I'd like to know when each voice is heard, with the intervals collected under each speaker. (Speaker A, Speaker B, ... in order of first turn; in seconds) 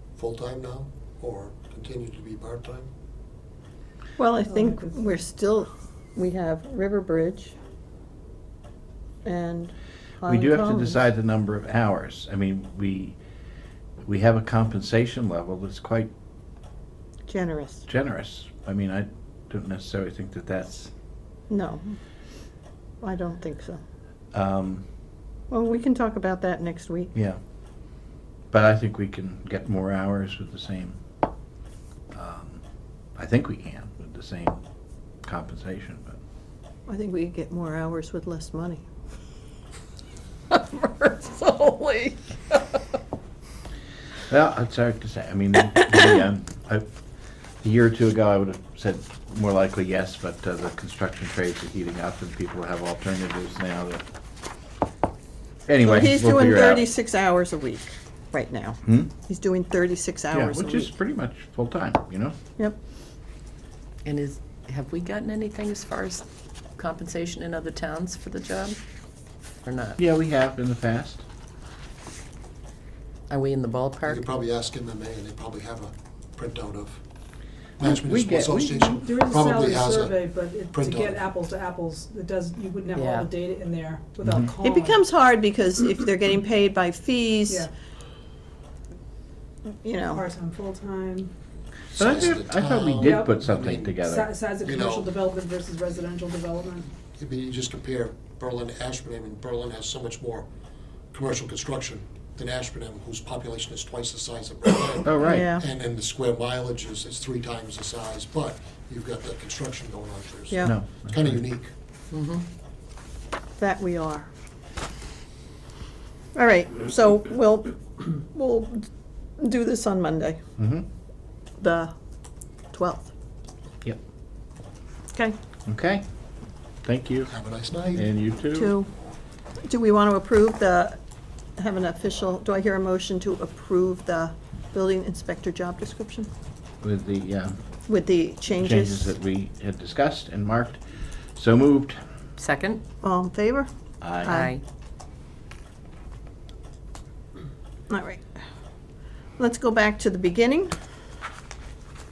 Speaker A: 0.1-2.9, 74.0-77.0, 77.8-81.3, 91.9-94.0, 94.6-95.1, 97.2-100.5, 101.1-111.7, 127.3-128.1
Speaker B: 4.2-7.5, 9.2-11.0, 17.3-17.8, 21.5-21.9, 23.0-23.8, 25.5-27.1, 36.9-38.8, 55.8-60.9, 84.6-87.7, 89.7-90.2, 105.2-105.7, 110.5-110.8, 113.6-114.3, 116.3-118.9, 119.4-120.4, 121.6-121.9, 122.7-123.1, 128.5-128.9, 129.6-131.0, 131.6-136.3, 137.9-139.1, 143.0-143.7, 144.2-144.5, 147.9-148.2, 149.4-150.7
Speaker C: 4.5-5.2, 78.8-85.0, 90.1-91.3, 93.0-93.4, 94.0-96.9
Speaker D: 10.2-13.2, 14.1-16.1, 17.9-20.9, 24.3-24.9, 28.5-31.0, 32.1-32.6, 33.2-34.6, 35.2-36.2, 44.3-46.9, 47.6-54.0, 55.7-56.9, 58.9-59.1, 60.3-62.4, 70.0-71.2, 77.9-78.8, 92.0-94.3, 105.0-105.5, 110.6-111.4, 120.6-120.8, 125.7-126.0, 126.8-127.3, 127.9-128.8, 136.8-137.5, 138.6-142.0, 144.0-144.4
Speaker E: 40.5-42.8, 64.0-66.2, 66.8-68.8, 69.6-70.0, 73.3-74.2, 82.9-83.3, 112.1-112.4, 142.4-142.8, 144.2-144.6